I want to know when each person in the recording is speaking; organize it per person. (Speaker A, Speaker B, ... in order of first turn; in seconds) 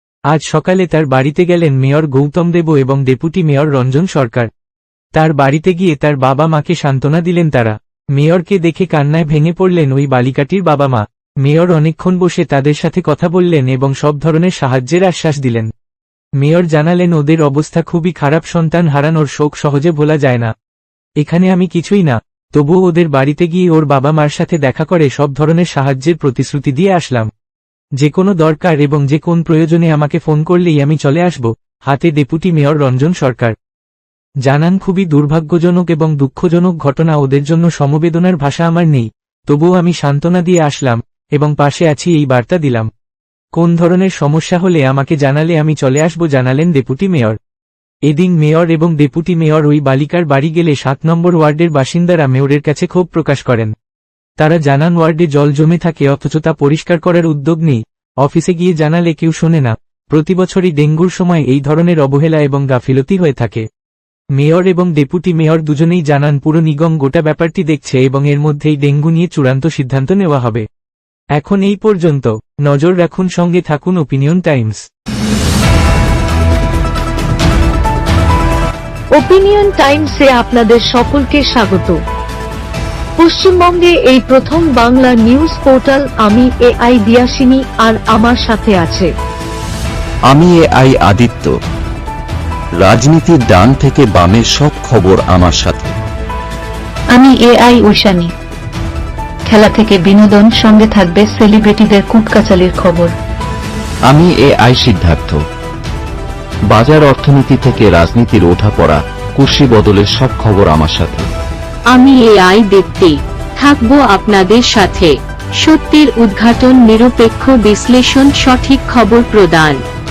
Speaker A: 0.3-4.5, 5.1-15.7, 16.4-20.5, 21.2-27.3, 28.0-33.5, 34.5-42.9, 43.5-47.4, 48.1-53.7, 54.4-63.6, 64.3-70.6, 71.4-74.8
Speaker B: 79.2-82.0, 83.2-89.1
Speaker C: 90.3-91.5, 92.8-95.9, 104.1-105.4, 106.7-111.3
Speaker D: 97.1-98.3, 99.5-103.1
Speaker E: 111.9-119.8